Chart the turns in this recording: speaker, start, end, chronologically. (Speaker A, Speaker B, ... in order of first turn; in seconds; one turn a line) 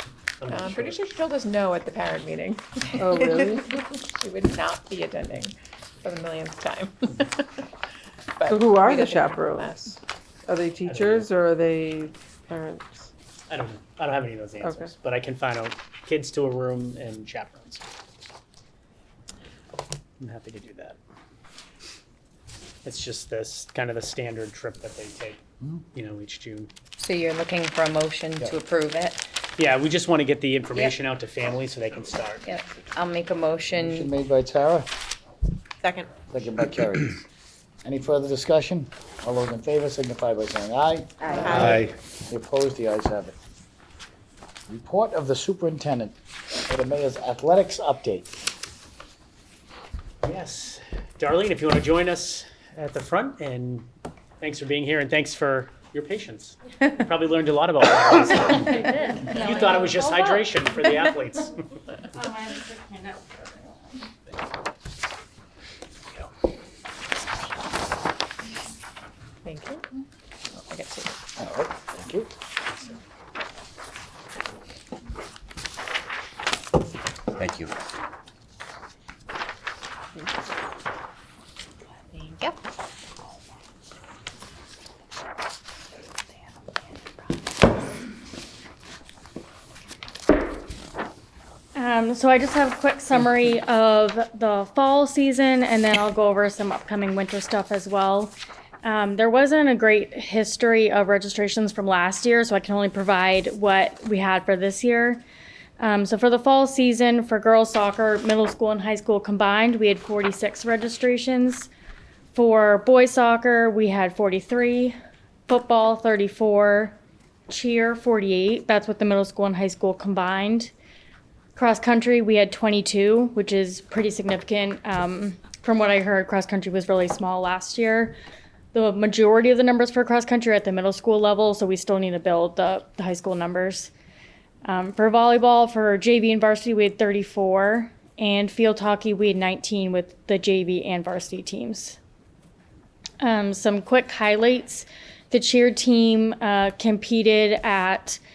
Speaker A: 0.4-1.1
Speaker B: 0.5-7.5
Speaker C: 3.0-3.8
Speaker B: 8.4-9.6
Speaker C: 8.5-13.1
Speaker D: 9.0-9.8
Speaker A: 10.9-11.3
Speaker A: 13.5-17.9
Speaker C: 14.6-14.9
Speaker A: 20.2-21.0
Speaker A: 22.9-25.4
Speaker A: 25.9-26.7
Speaker D: 27.0-29.2
Speaker A: 29.6-32.5
Speaker D: 32.4-34.1
Speaker E: 33.7-34.9
Speaker B: 35.8-36.1
Speaker E: 36.3-37.2
Speaker E: 37.8-43.3
Speaker D: 41.2-41.6
Speaker B: 41.4-41.8
Speaker A: 41.6-41.9
Speaker E: 44.7-46.1
Speaker E: 46.7-48.3
Speaker A: 50.2-53.9
Speaker A: 54.4-61.6
Speaker F: 58.7-60.4
Speaker F: 62.1-64.0
Speaker B: 69.5-69.8
Speaker B: 70.6-71.1
Speaker E: 71.4-72.3
Speaker D: 82.1-82.6
Speaker F: 91.8-105.2
Speaker F: 105.8-111.7
Speaker F: 112.3-115.0
Speaker F: 115.5-117.0
Speaker F: 117.5-120.7
Speaker F: 121.6-128.2
Speaker F: 128.7-133.9
Speaker F: 134.7-142.0
Speaker F: 143.2-148.2